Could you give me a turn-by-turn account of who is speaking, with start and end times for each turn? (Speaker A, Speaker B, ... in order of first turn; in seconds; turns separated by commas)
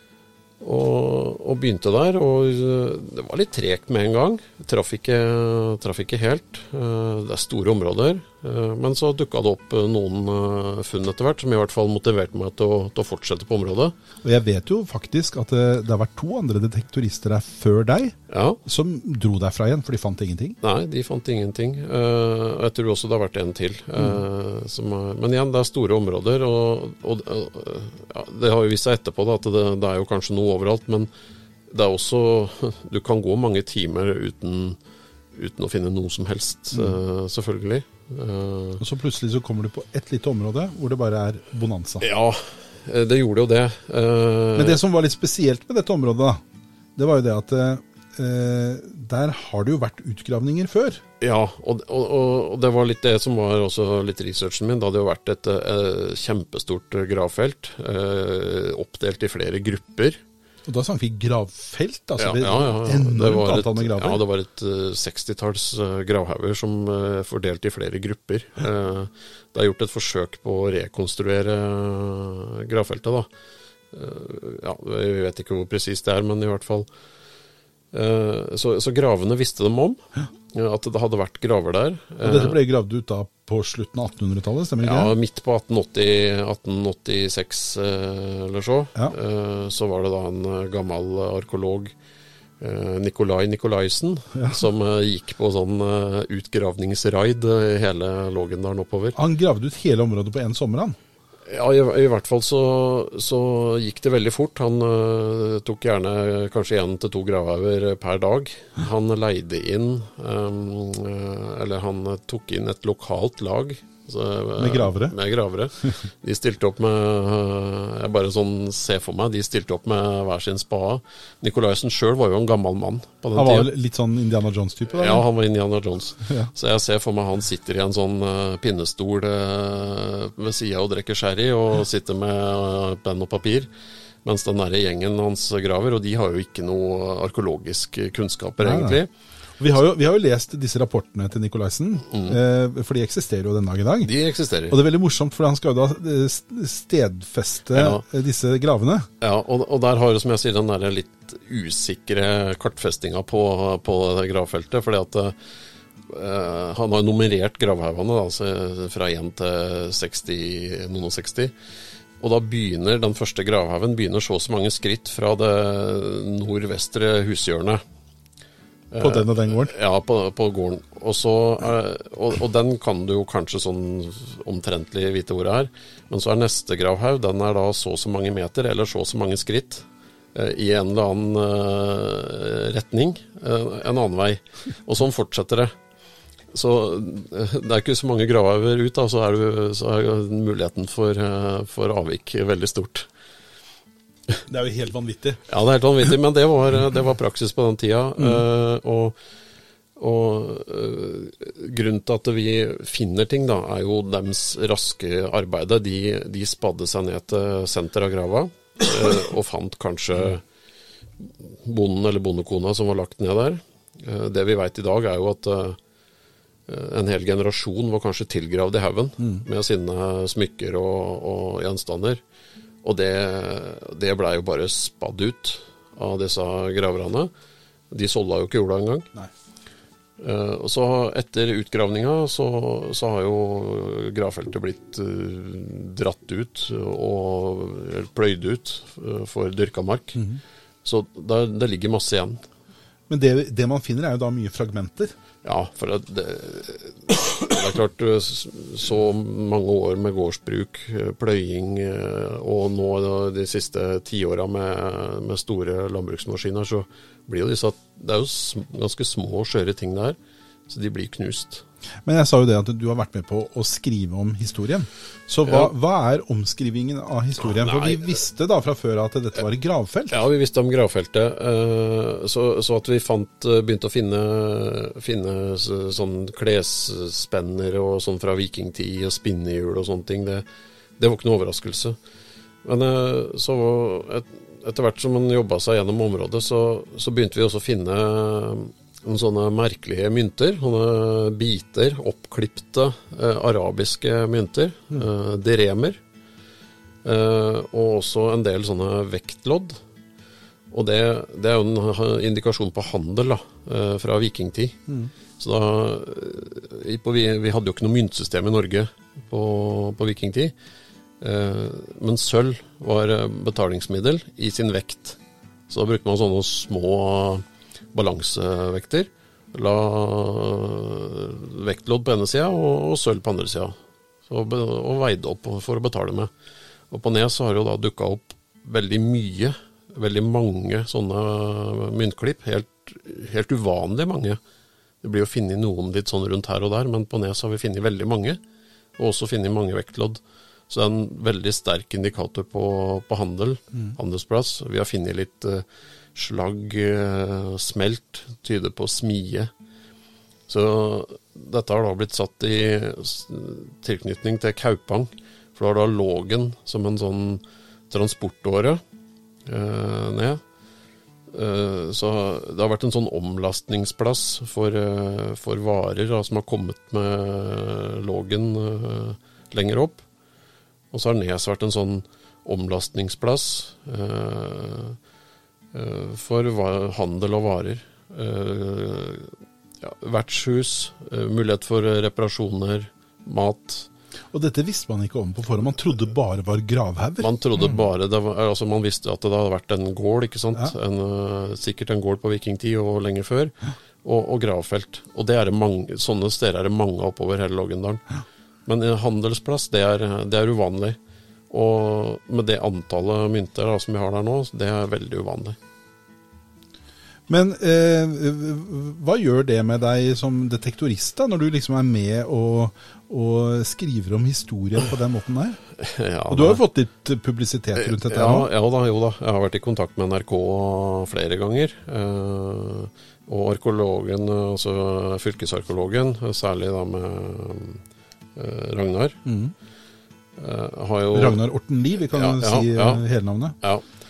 Speaker A: 0.6-13.9, Speaker B: 14.2-20.6, Speaker A: 18.3-18.6, Speaker A: 20.6-31.1, Speaker B: 24.0-24.2, Speaker A: 31.7-34.8, Speaker A: 35.4-38.8, Speaker B: 36.7-37.0, Speaker B: 38.8-42.0, Speaker A: 42.0-44.8, Speaker B: 44.6-46.4, Speaker B: 47.0-51.0, Speaker A: 51.2-60.2, Speaker B: 60.7-64.2, Speaker A: 62.2-73.3, Speaker A: 73.9-76.9, Speaker A: 77.9-80.0, Speaker A: 80.5-82.6, Speaker B: 82.2-85.1, Speaker A: 84.8-91.9, Speaker A: 92.6-99.2, Speaker B: 94.3-94.6, Speaker B: 99.2-101.0, Speaker A: 101.5-123.7, Speaker B: 114.6-115.1, Speaker B: 123.3-125.2, Speaker A: 124.9-133.7, Speaker A: 134.2-139.1, Speaker B: 138.6-139.0, Speaker B: 139.6-144.2, Speaker A: 142.1-142.4, Speaker A: 144.0-144.8, Speaker B: 144.7-149.1, Speaker A: 147.7-148.0, Speaker A: 149.2-155.4, Speaker A: 156.1-161.5, Speaker A: 162.2-167.8, Speaker A: 168.9-179.8, Speaker B: 169.0-169.7, Speaker A: 180.3-185.7, Speaker A: 186.5-193.1, Speaker B: 194.5-195.4, Speaker A: 195.5-199.2, Speaker A: 200.0-210.4, Speaker A: 211.2-215.8, Speaker A: 216.7-222.2, Speaker A: 222.8-227.3, Speaker A: 227.9-229.1, Speaker A: 230.2-240.2, Speaker A: 240.8-242.4, Speaker B: 243.1-245.2, Speaker A: 245.4-260.2, Speaker A: 260.7-261.6, Speaker B: 262.1-270.2, Speaker A: 265.5-265.7, Speaker A: 267.5-268.2, Speaker A: 270.1-280.4, Speaker A: 281.0-282.0, Speaker A: 282.6-296.0, Speaker A: 297.0-299.8, Speaker A: 300.7-304.8, Speaker A: 305.4-310.5, Speaker A: 311.2-315.2, Speaker A: 315.7-323.8, Speaker A: 324.3-326.3, Speaker A: 326.9-334.4, Speaker A: 335.0-338.4, Speaker A: 339.0-349.5, Speaker A: 350.5-358.8, Speaker A: 359.5-360.4, Speaker A: 361.3-370.0, Speaker A: 370.9-375.0, Speaker A: 375.7-383.9, Speaker B: 384.3-387.7, Speaker A: 387.2-398.0, Speaker A: 398.7-401.0, Speaker A: 401.5-405.6, Speaker B: 407.3-415.6, Speaker A: 415.8-416.6, Speaker B: 416.3-418.5, Speaker A: 417.8-427.8, Speaker A: 428.4-429.2, Speaker B: 429.3-429.5, Speaker A: 430.4-431.4, Speaker B: 431.1-433.6, Speaker A: 432.1-433.1